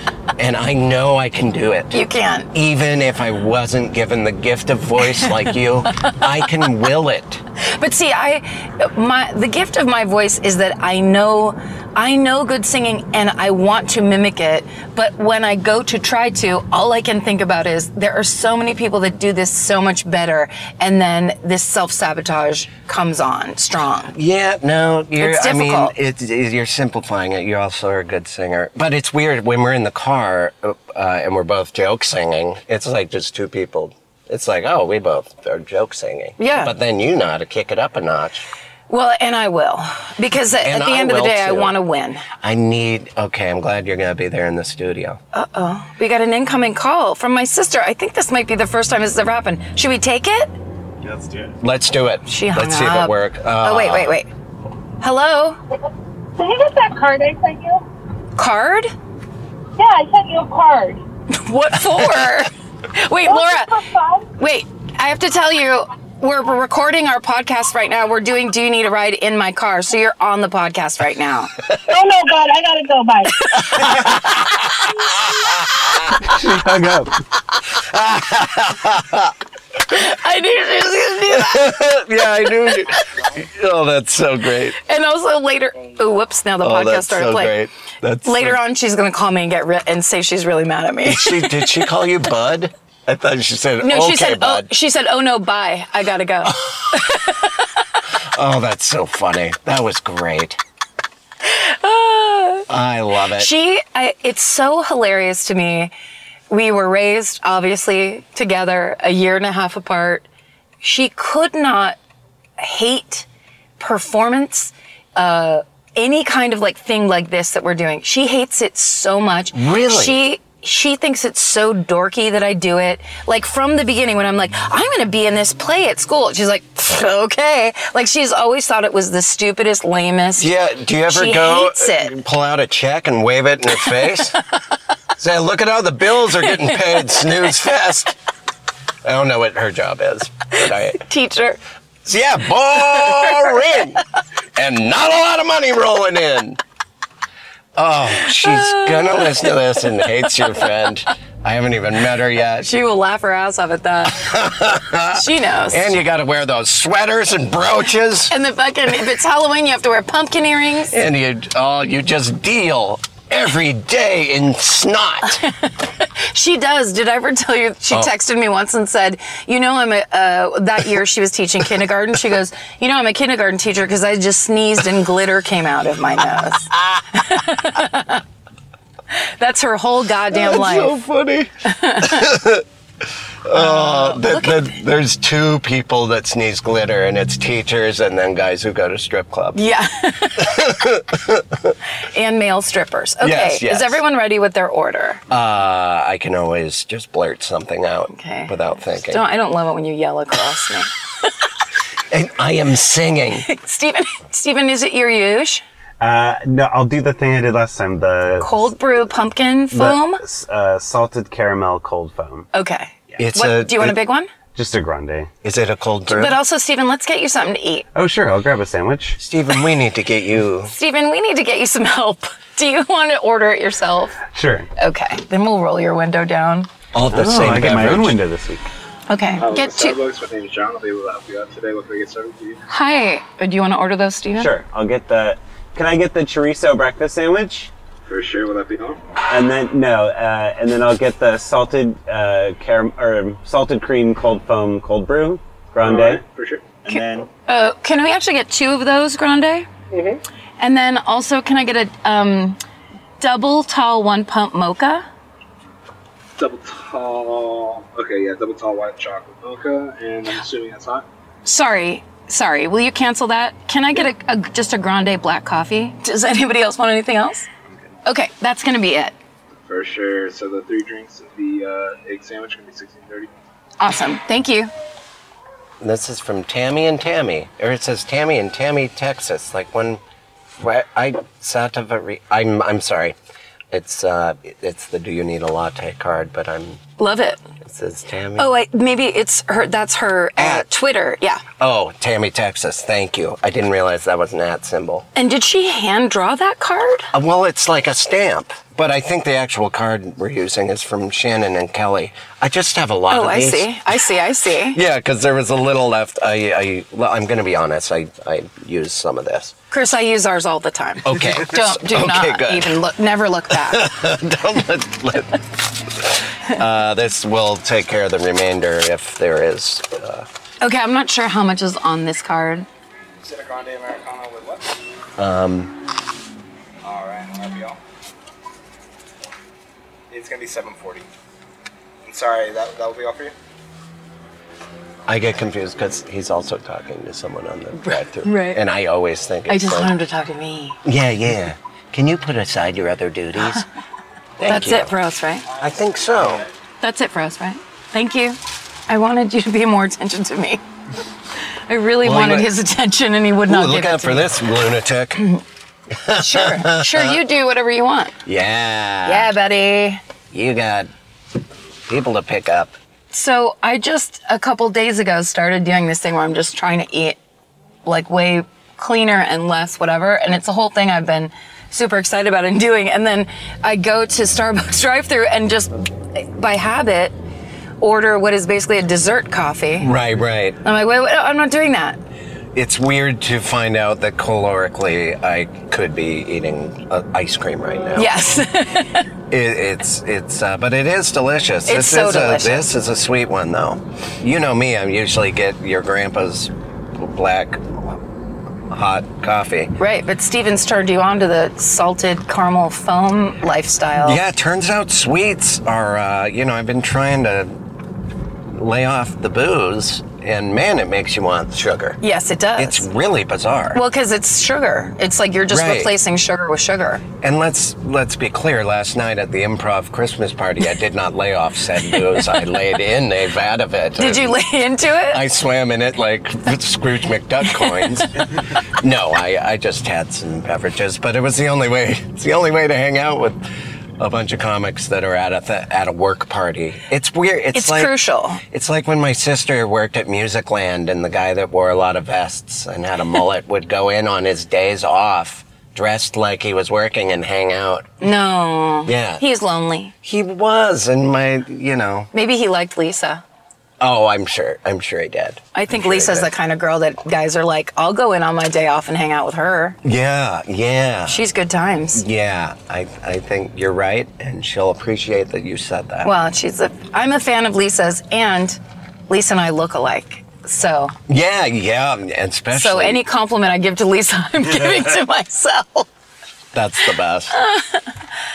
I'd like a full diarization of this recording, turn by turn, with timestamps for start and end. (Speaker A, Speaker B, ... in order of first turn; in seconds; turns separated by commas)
Speaker A: 0.4-7.4, Speaker B: 1.9-2.5, Speaker B: 7.7-24.1, Speaker A: 24.1-38.5, Speaker B: 25.2-25.9, Speaker B: 36.4-36.7, Speaker B: 38.9-42.3, Speaker A: 40.6-41.8, Speaker A: 42.4-45.2, Speaker B: 45.3-50.5, Speaker C: 51.1-51.5, Speaker A: 51.6-54.2, Speaker B: 52.3-54.3, Speaker B: 55.0-55.6, Speaker D: 56.4-57.8, Speaker B: 58.4-58.9, Speaker D: 59.8-61.0, Speaker B: 61.3-63.8, Speaker D: 63.2-64.3, Speaker B: 64.4-71.5, Speaker D: 71.9-73.9, Speaker B: 73.4-74.1, Speaker A: 73.8-76.2, Speaker C: 76.2-77.1, Speaker A: 77.7-79.3, Speaker B: 79.9-81.9, Speaker A: 81.3-84.8, Speaker B: 82.4-82.7, Speaker B: 84.8-87.5, Speaker A: 86.6-88.6, Speaker B: 88.2-91.8, Speaker A: 91.0-94.7, Speaker B: 93.8-97.5, Speaker A: 96.5-97.0, Speaker A: 98.3-100.6, Speaker B: 101.5-102.7, Speaker A: 102.7-103.5, Speaker B: 103.3-105.9, Speaker B: 106.5-110.3, Speaker B: 110.8-112.0, Speaker B: 112.6-113.3, Speaker B: 113.8-130.5, Speaker A: 119.5-120.2, Speaker A: 130.4-134.4, Speaker B: 131.1-132.2, Speaker A: 135.2-138.2, Speaker A: 139.0-141.0, Speaker B: 140.9-141.6, Speaker A: 142.1-144.0, Speaker B: 143.2-143.5, Speaker A: 144.6-146.6, Speaker A: 147.8-152.7, Speaker B: 148.4-149.3, Speaker B: 152.6-154.3, Speaker A: 154.1-158.3, Speaker B: 155.1-155.9, Speaker B: 158.3-160.9, Speaker A: 160.9-165.4, Speaker B: 165.4-178.2, Speaker B: 179.1-181.0, Speaker A: 180.3-182.7, Speaker B: 181.7-182.3, Speaker A: 183.4-189.6, Speaker B: 183.5-184.7, Speaker B: 189.6-190.7, Speaker A: 190.4-191.8, Speaker B: 192.1-195.2, Speaker A: 193.2-194.0, Speaker A: 195.3-199.2, Speaker B: 198.1-200.9, Speaker A: 202.1-203.5, Speaker B: 203.4-205.6, Speaker C: 206.0-208.6, Speaker B: 208.4-210.2, Speaker C: 209.7-212.5, Speaker B: 212.5-214.3, Speaker A: 213.2-214.0, Speaker C: 214.5-215.3, Speaker A: 215.4-216.4, Speaker B: 216.1-217.9, Speaker C: 217.9-219.2, Speaker A: 219.2-220.7, Speaker B: 220.7-224.2, Speaker C: 224.3-224.7, Speaker B: 224.8-226.7, Speaker A: 226.9-228.2, Speaker C: 227.1-228.7, Speaker B: 229.1-230.0, Speaker E: 229.4-232.6, Speaker B: 232.7-234.5, Speaker C: 234.4-237.7, Speaker E: 238.1-239.0, Speaker C: 239.3-246.2, Speaker E: 245.8-246.8, Speaker C: 246.8-247.3, Speaker B: 246.9-249.7, Speaker E: 249.9-250.2, Speaker B: 250.6-252.6, Speaker B: 253.2-255.1, Speaker E: 256.4-261.1, Speaker B: 261.4-267.5, Speaker B: 268.1-269.1, Speaker E: 269.6-273.3, Speaker B: 273.8-274.7, Speaker A: 275.8-280.0, Speaker A: 280.6-283.1, Speaker A: 283.7-286.8, Speaker B: 287.0-287.4, Speaker A: 287.6-288.5, Speaker B: 288.4-291.4, Speaker A: 290.4-290.7, Speaker A: 291.6-295.1, Speaker B: 295.1-297.1, Speaker A: 297.1-303.8, Speaker B: 303.1-304.8, Speaker A: 304.7-309.5, Speaker B: 309.7-313.9, Speaker A: 311.1-312.8, Speaker A: 313.5-320.3, Speaker B: 320.6-322.7, Speaker E: 323.2-324.7, Speaker A: 325.2-325.8, Speaker E: 326.8-327.8, Speaker E: 330.1-331.1, Speaker E: 332.0-333.3, Speaker A: 335.1-339.9, Speaker B: 338.2-338.6, Speaker B: 339.5-340.8, Speaker A: 340.9-343.7, Speaker A: 344.4-344.9, Speaker B: 344.4-345.5, Speaker A: 345.6-346.4, Speaker E: 345.9-346.5, Speaker B: 346.8-350.6, Speaker B: 351.7-354.3, Speaker A: 352.0-352.5, Speaker A: 353.5-355.3, Speaker A: 355.9-357.2, Speaker B: 356.1-358.1, Speaker A: 358.3-359.3, Speaker B: 359.1-360.0, Speaker A: 360.3-360.9, Speaker A: 361.9-362.8, Speaker B: 363.1-367.2, Speaker B: 367.9-377.1, Speaker B: 377.8-379.9, Speaker A: 379.8-380.6, Speaker B: 380.6-382.0, Speaker A: 382.5-388.2, Speaker B: 387.9-389.0, Speaker A: 389.3-398.0, Speaker B: 391.7-392.7, Speaker A: 398.7-399.8, Speaker B: 399.8-404.2, Speaker A: 404.0-407.6, Speaker A: 408.5-412.0, Speaker B: 412.0-412.9, Speaker A: 412.6-413.8, Speaker B: 413.8-417.0, Speaker A: 415.5-415.9, Speaker A: 417.2-424.4, Speaker B: 424.0-425.2, Speaker A: 425.1-433.4, Speaker A: 434.0-448.0, Speaker B: 437.5-438.4, Speaker B: 448.0-449.9, Speaker A: 448.9-449.2, Speaker A: 450.0-452.1, Speaker B: 452.1-453.2, Speaker A: 453.8-456.3, Speaker B: 455.5-459.8, Speaker A: 459.8-461.2, Speaker B: 461.1-462.1, Speaker A: 461.9-466.1, Speaker B: 466.0-470.9, Speaker A: 471.1-473.0, Speaker B: 472.5-475.9, Speaker A: 476.5-477.4, Speaker B: 477.3-477.9